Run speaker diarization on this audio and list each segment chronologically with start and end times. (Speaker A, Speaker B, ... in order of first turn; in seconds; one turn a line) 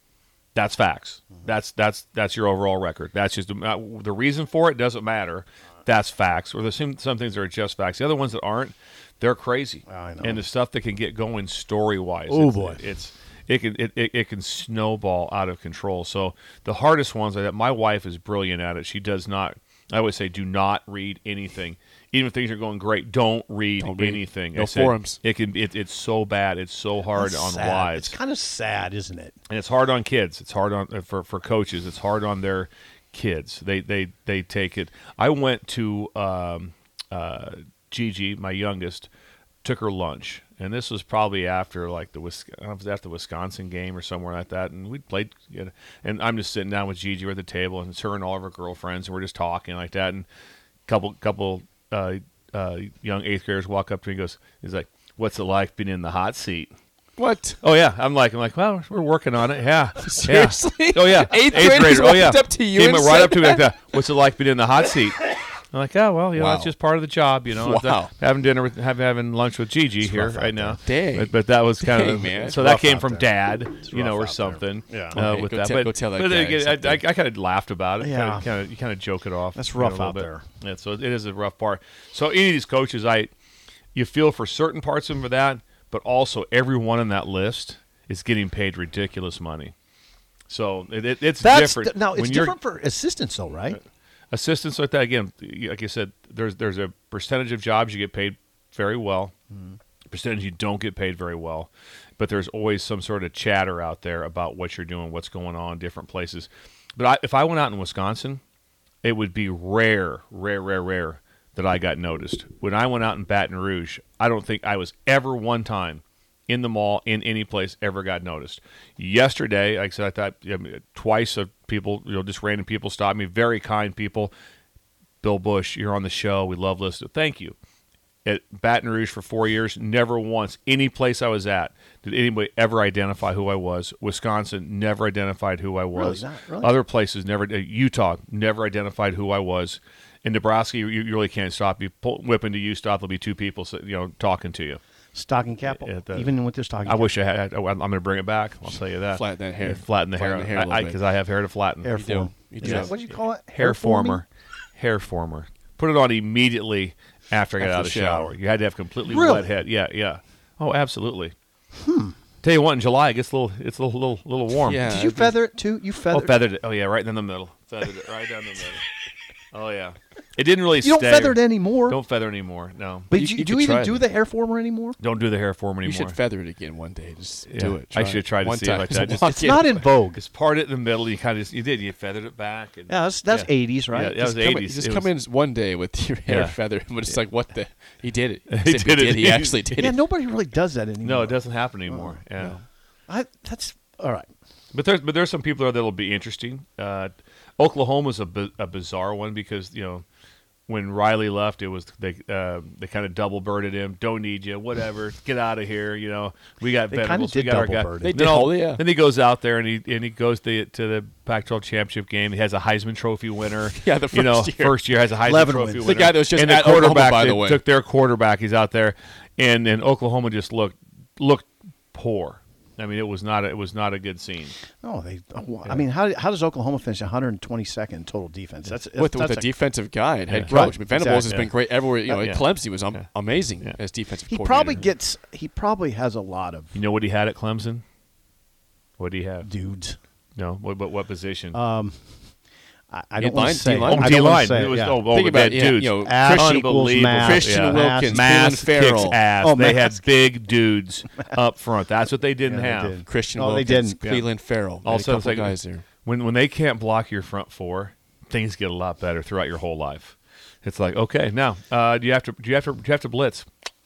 Speaker A: 0.6-28.1
Speaker B: 9.9-10.4
Speaker B: 12.3-12.8
Speaker C: 23.8-25.2
Speaker B: 27.1-29.4
Speaker A: 29.5-39.1
Speaker A: 39.6-50.3
Speaker A: 50.9-56.7
Speaker C: 57.2-57.6
Speaker A: 57.6-65.2
Speaker C: 60.0-63.7
Speaker A: 65.7-83.3
Speaker C: 66.4-66.7
Speaker C: 67.5-68.1
Speaker B: 70.0-70.8
Speaker C: 70.8-72.6
Speaker B: 72.5-75.2
Speaker C: 75.1-77.0
Speaker B: 78.0-78.5
Speaker B: 79.5-80.5
Speaker A: 84.0-89.7
Speaker A: 90.5-92.6
Speaker B: 91.4-93.8
Speaker A: 94.3-99.3
Speaker A: 100.1-108.4
Speaker A: 109.0-124.3
Speaker A: 125.2-127.5
Speaker A: 128.2-144.8
Speaker B: 135.9-136.7
Speaker B: 145.1-147.1
Speaker A: 145.7-146.3
Speaker A: 146.8-151.9
Speaker C: 149.1-151.0
Speaker B: 151.8-154.2
Speaker C: 151.9-152.9
Speaker A: 152.6-152.9
Speaker A: 153.6-154.3
Speaker A: 154.8-161.3
Speaker C: 157.6-158.3
Speaker B: 159.1-159.5
Speaker B: 161.8-162.2
Speaker A: 162.4-164.9
Speaker C: 164.6-165.3
Speaker B: 164.8-166.4
Speaker A: 166.1-168.9
Speaker A: 169.5-173.1
Speaker B: 170.8-172.0
Speaker B: 173.1-175.0
Speaker C: 173.1-174.1
Speaker A: 175.0-176.2
Speaker C: 175.8-179.9
Speaker A: 177.5-185.1
Speaker B: 179.1-180.2
Speaker B: 182.9-184.6
Speaker C: 184.4-190.0
Speaker A: 186.3-186.6
Speaker A: 188.5-189.8
Speaker B: 189.7-192.2
Speaker A: 191.0-192.6
Speaker B: 193.1-194.3
Speaker A: 194.7-200.1
Speaker A: 200.7-224.6
Speaker B: 206.9-208.2
Speaker C: 208.0-208.8
Speaker C: 213.7-214.8
Speaker B: 215.2-216.1
Speaker C: 215.8-217.6
Speaker B: 224.8-229.5
Speaker C: 229.0-234.9
Speaker A: 230.3-230.7
Speaker B: 230.4-231.4
Speaker A: 232.1-233.1
Speaker B: 234.3-236.8
Speaker A: 236.7-237.8
Speaker A: 239.0-239.5
Speaker B: 239.4-240.0
Speaker A: 240.4-241.6
Speaker B: 241.5-242.2
Speaker B: 242.9-245.0
Speaker C: 243.2-249.2
Speaker A: 243.9-253.0
Speaker B: 246.0-248.4
Speaker B: 249.4-250.0
Speaker B: 252.4-254.0
Speaker C: 253.1-255.8
Speaker A: 254.8-263.5